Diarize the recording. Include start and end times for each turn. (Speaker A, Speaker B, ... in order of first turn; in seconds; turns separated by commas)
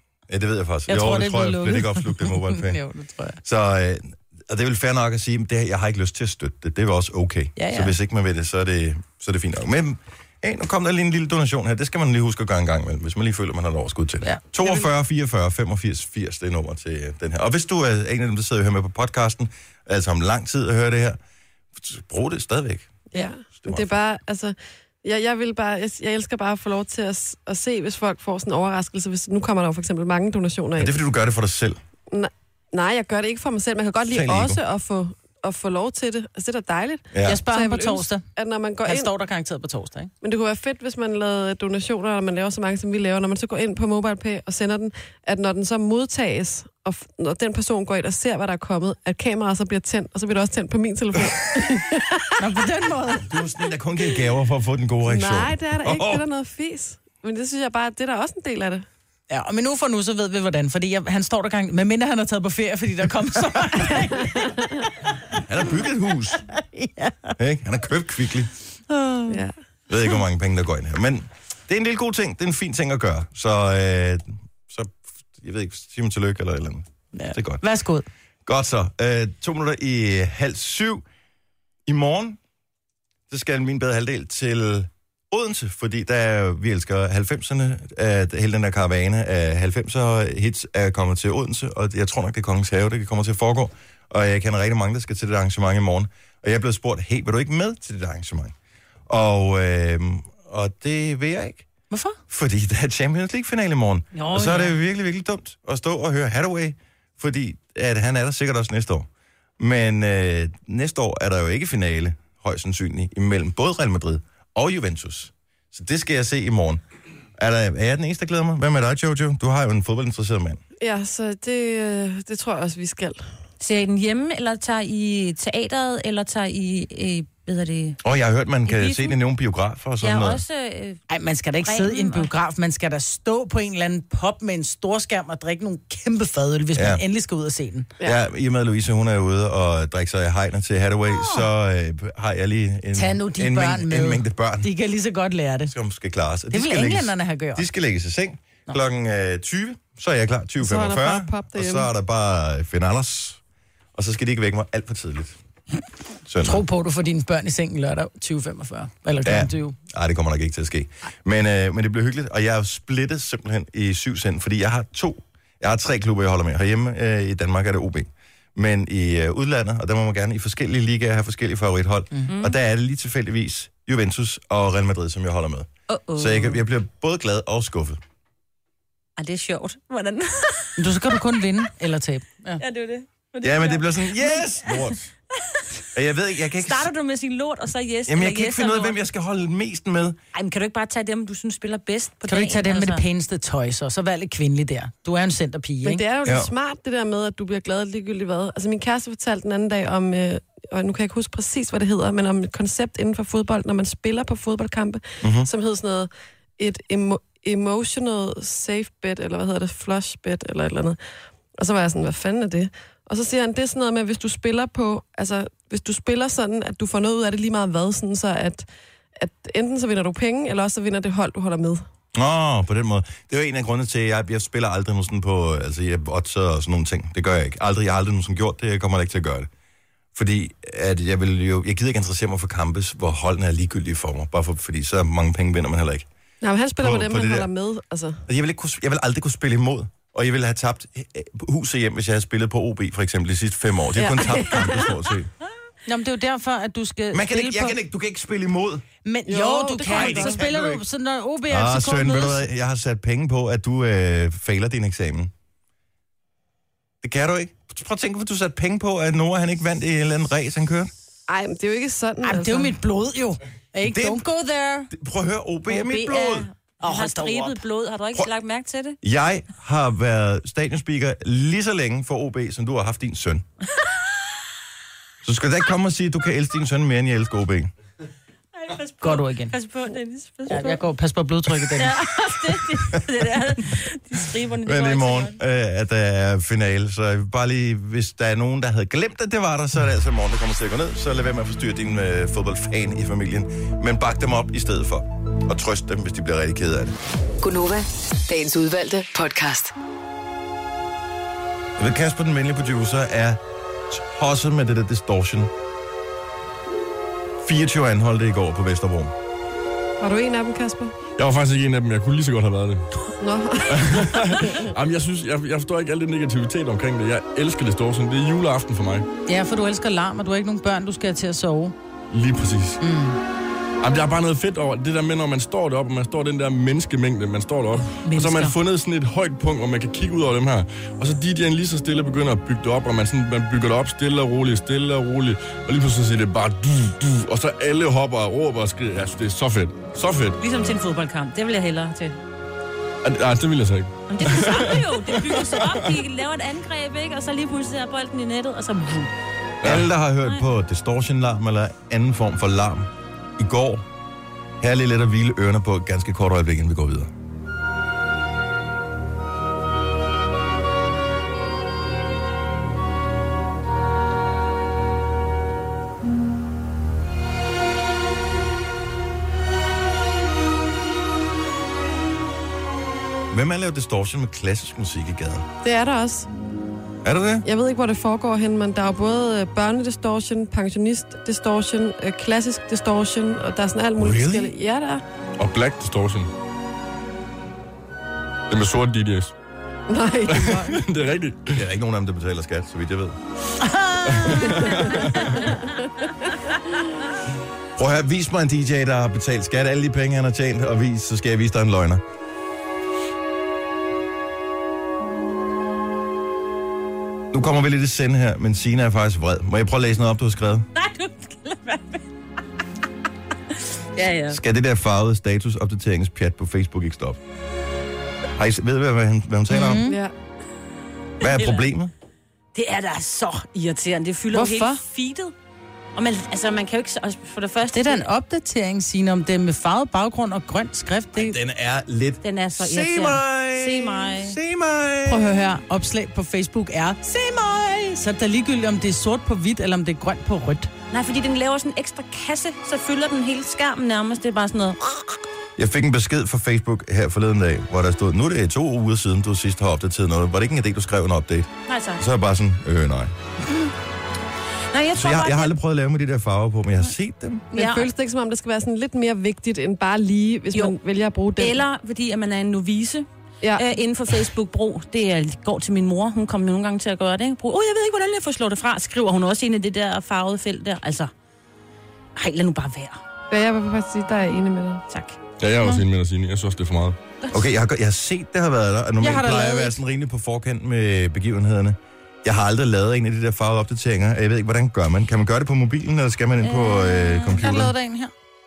Speaker A: 0.3-2.8, Speaker B: 0.9-3.4, Speaker A: 3.4-21.2, Speaker B: 7.6-8.0, Speaker B: 14.2-14.9, Speaker A: 21.8-23.1, Speaker C: 23.1-31.0, Speaker A: 23.6-24.0, Speaker A: 30.8-31.8, Speaker C: 32.1-39.1, Speaker A: 34.1-34.6, Speaker A: 37.1-37.4, Speaker B: 37.2-38.2, Speaker B: 38.9-40.1, Speaker C: 40.2-52.4, Speaker B: 52.4-53.3, Speaker A: 53.2-56.3, Speaker C: 55.1-58.9, Speaker B: 59.3-64.6, Speaker C: 64.2-64.7, Speaker A: 65.5-66.5, Speaker B: 66.5-67.4, Speaker A: 67.4-68.5, Speaker B: 68.9-69.4, Speaker C: 69.3-69.5, Speaker A: 69.9-77.6, Speaker B: 77.1-78.1, Speaker A: 78.5-81.0, Speaker A: 81.9-82.4, Speaker A: 83.3-98.5, Speaker A: 99.1-101.7, Speaker B: 101.9-102.2, Speaker A: 102.3-109.1, Speaker D: 104.1-104.7, Speaker A: 109.6-116.8, Speaker A: 117.4-120.6, Speaker C: 120.8-123.2, Speaker D: 123.6-128.0, Speaker A: 128.0-130.4, Speaker D: 128.7-129.2, Speaker D: 130.0-131.0, Speaker B: 131.1-137.9, Speaker D: 131.7-132.3, Speaker A: 136.7-137.0, Speaker A: 138.0-144.7, Speaker B: 141.2-141.4, Speaker B: 142.9-145.7, Speaker A: 145.7-153.4, Speaker B: 146.5-147.7, Speaker C: 150.6-151.9, Speaker A: 153.9-155.4, Speaker A: 156.2-156.6, Speaker B: 156.4-159.8, Speaker A: 159.2-178.0, Speaker D: 172.3-172.6, Speaker D: 175.9-176.6, Speaker D: 179.2-180.8, Speaker B: 180.8-182.6, Speaker D: 182.6-184.9, Speaker A: 183.4-185.1, Speaker D: 185.5-185.8, Speaker A: 185.9-186.9, Speaker D: 186.6-189.0, Speaker A: 188.1-190.2, Speaker D: 190.3-193.0, Speaker B: 192.3-196.0, Speaker C: 195.8-211.0, Speaker A: 196.2-196.5, Speaker A: 205.2-205.5, Speaker C: 211.6-218.7, Speaker C: 219.2-221.8, Speaker A: 222.1-229.5, Speaker A: 230.2-236.1, Speaker C: 236.4-238.2, Speaker A: 236.8-237.5, Speaker A: 238.3-245.3, Speaker C: 243.9-244.9, Speaker B: 245.9-247.8, Speaker A: 247.1-248.8, Speaker B: 249.1-252.4, Speaker C: 249.3-250.4, Speaker A: 249.9-250.8, Speaker A: 251.5-255.3, Speaker A: 257.0-260.9, Speaker C: 261.3-262.7, Speaker B: 262.2-264.9, Speaker A: 263.8-264.2, Speaker A: 264.9-266.5, Speaker B: 265.7-266.2, Speaker D: 265.9-269.0, Speaker B: 266.8-267.6, Speaker A: 269.0-273.5, Speaker A: 275.2-277.7, Speaker D: 278.6-280.8, Speaker B: 279.0-279.5, Speaker B: 280.5-281.9, Speaker D: 281.8-285.4, Speaker A: 284.6-296.9, Speaker E: 297.4-299.7, Speaker A: 301.8-305.5, Speaker A: 307.4-309.1, Speaker C: 310.0-310.9, Speaker F: 311.2-312.9, Speaker C: 313.2-314.7, Speaker F: 313.7-319.1, Speaker B: 319.3-321.8, Speaker F: 322.1-322.8, Speaker B: 322.8-323.2, Speaker F: 323.8-340.4, Speaker B: 328.0-328.6, Speaker D: 340.4-342.2, Speaker F: 343.0-345.8, Speaker D: 344.1-349.1, Speaker F: 349.6-349.9, Speaker A: 349.6-353.9, Speaker A: 354.6-357.1, Speaker A: 373.3-375.5, Speaker C: 375.6-376.3, Speaker A: 377.0-377.4, Speaker C: 377.4-385.0, Speaker A: 384.0-384.5, Speaker F: 385.4-386.3, Speaker F: 388.5-389.3, Speaker C: 389.9-390.8, Speaker F: 390.3-391.5, Speaker A: 391.5-393.2, Speaker B: 393.6-394.6, Speaker F: 394.1-395.4, Speaker A: 397.8-402.0, Speaker A: 407.3-410.7, Speaker D: 410.8-412.0, Speaker D: 413.9-414.4, Speaker A: 414.3-417.2, Speaker A: 418.4-419.9, Speaker B: 419.5-420.0, Speaker C: 419.9-420.1, Speaker A: 421.2-421.9, Speaker D: 421.2-421.6, Speaker D: 422.5-425.3, Speaker B: 424.3-424.8, Speaker D: 425.9-428.1, Speaker B: 427.7-431.4, Speaker A: 431.1-435.4, Speaker D: 432.2-434.4, Speaker B: 435.1-440.7, Speaker D: 440.9-445.1, Speaker A: 445.6-453.1, Speaker D: 451.7-452.0, Speaker D: 454.7-455.5, Speaker A: 454.9-457.5, Speaker D: 457.5-457.9, Speaker C: 457.5-461.6, Speaker D: 461.4-471.1, Speaker D: 472.2-473.0, Speaker C: 473.3-474.8, Speaker D: 474.9-475.2, Speaker F: 475.4-477.0, Speaker A: 477.3-487.7, Speaker B: 479.0-479.8, Speaker D: 486.4-487.4, Speaker B: 487.4-488.1